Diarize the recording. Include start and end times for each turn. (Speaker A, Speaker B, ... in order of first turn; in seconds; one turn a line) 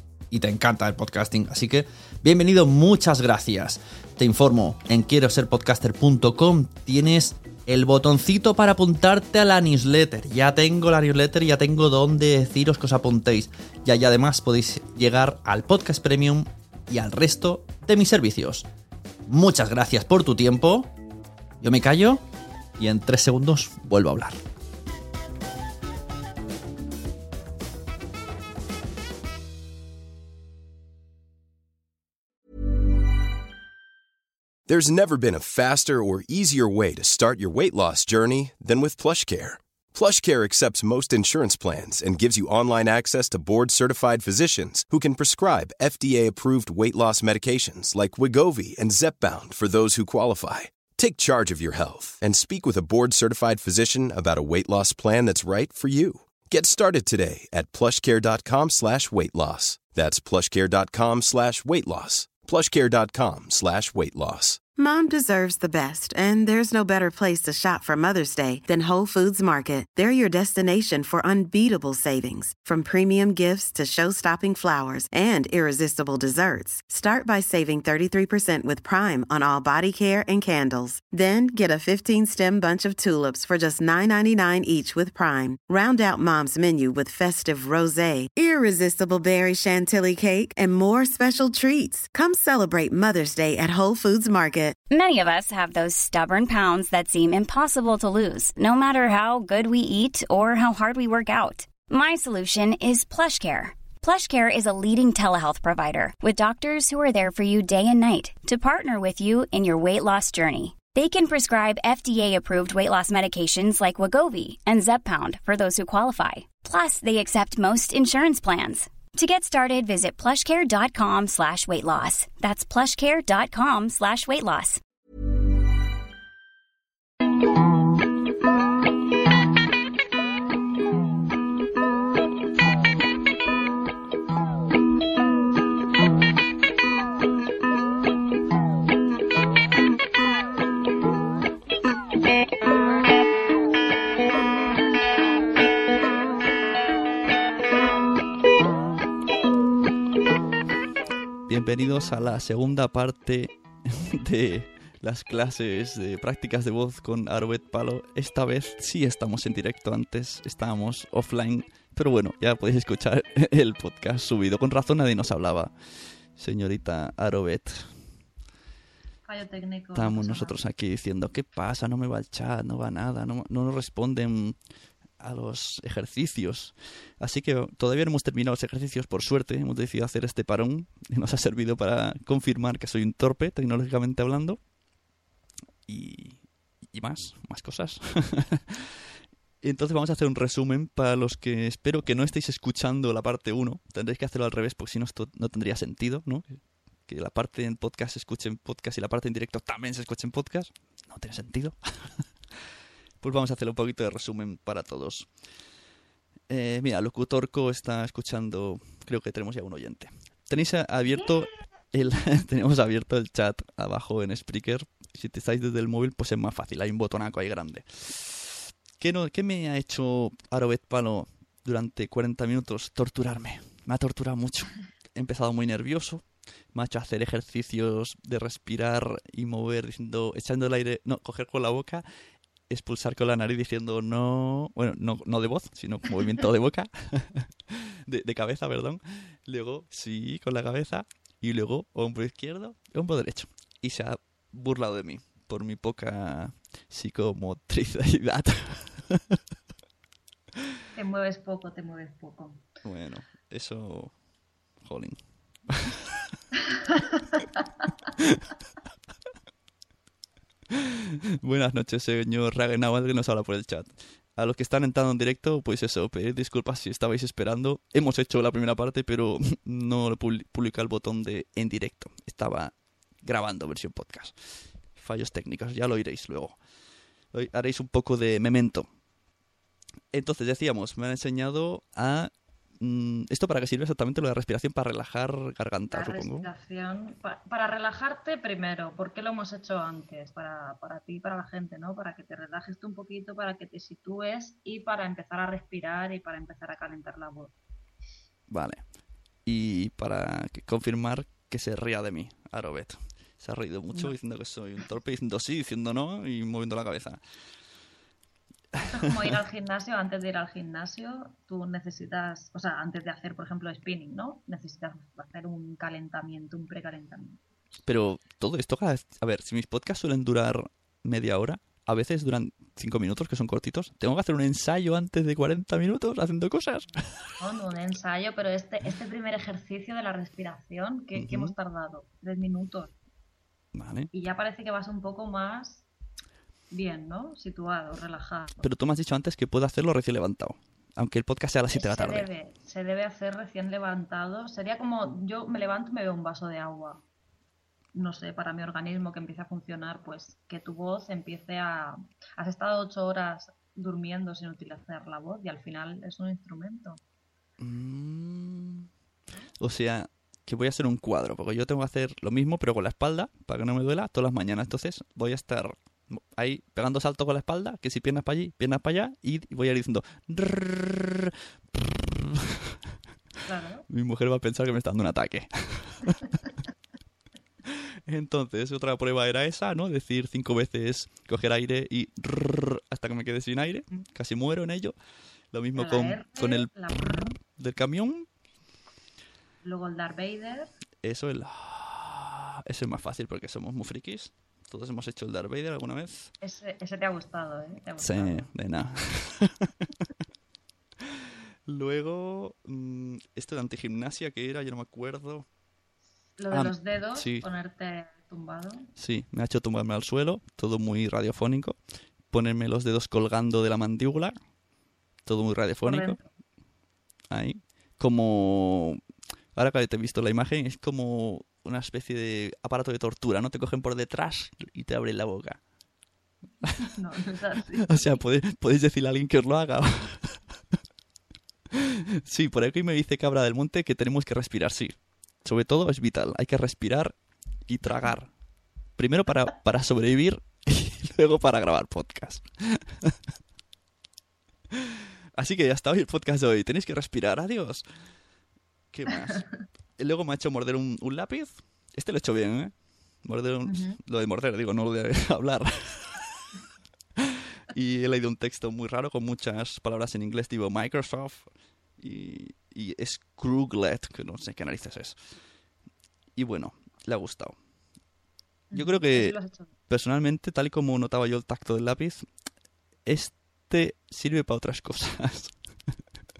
Speaker A: 0.3-18.6
Speaker A: 19.3-20.8
Speaker A: 21.6-22.2
Speaker A: 22.8-24.4
Speaker B: 34.7-64.6
Speaker C: 64.8-94.8
Speaker D: 94.9-124.8
Speaker A: 151.5-165.7
Speaker A: 166.3-167.9
Speaker E: 169.2-170.6
Speaker A: 169.9-174.6
Speaker A: 175.2-184.6
Speaker A: 185.9-188.8
Speaker A: 189.6-202.2
Speaker A: 203.2-205.3
Speaker A: 206.5-232.0
Speaker A: 232.7-249.4
Speaker E: 250.9-252.6
Speaker A: 252.8-254.1
Speaker A: 254.8-255.2
Speaker A: 255.7-256.1
Speaker A: 260.7-274.4
Speaker A: 274.9-276.6
Speaker A: 277.3-278.9
Speaker A: 280.1-286.5
Speaker E: 285.9-297.5
Speaker A: 298.5-298.8
Speaker A: 299.4-307.2
Speaker A: 308.8-309.4
Speaker E: 308.8-317.4
Speaker A: 317.9-327.3
Speaker E: 327.3-332.9
Speaker A: 331.1-331.5
Speaker A: 333.7-334.1
Speaker E: 334.1-335.9
Speaker E: 336.7-338.6
Speaker A: 338.6-342.3
Speaker E: 341.7-347.0
Speaker E: 347.9-357.0
Speaker A: 357.6-358.9
Speaker A: 359.6-372.7
Speaker E: 373.4-373.9
Speaker A: 373.9-376.2
Speaker A: 377.6-384.9
Speaker A: 385.5-388.3
Speaker E: 385.8-387.3
Speaker E: 389.6-390.7
Speaker A: 391.0-396.3
Speaker E: 396.4-398.5
Speaker A: 398.0-399.7
Speaker A: 401.7-405.5
Speaker E: 406.4-408.9
Speaker A: 406.5-407.4
Speaker A: 409.0-411.8
Speaker A: 412.3-414.3
Speaker A: 415.2-416.1
Speaker E: 415.8-416.3
Speaker A: 417.3-419.0
Speaker A: 419.5-425.6
Speaker E: 426.8-428.2
Speaker A: 427.8-430.4
Speaker A: 431.8-438.3
Speaker A: 439.0-443.1
Speaker A: 445.4-447.9
Speaker A: 448.9-456.5
Speaker E: 449.3-449.6
Speaker E: 453.6-454.0
Speaker A: 457.7-465.2
Speaker A: 466.4-467.5
Speaker E: 468.7-469.7
Speaker A: 468.7-469.4
Speaker A: 469.9-472.2
Speaker A: 473.1-475.5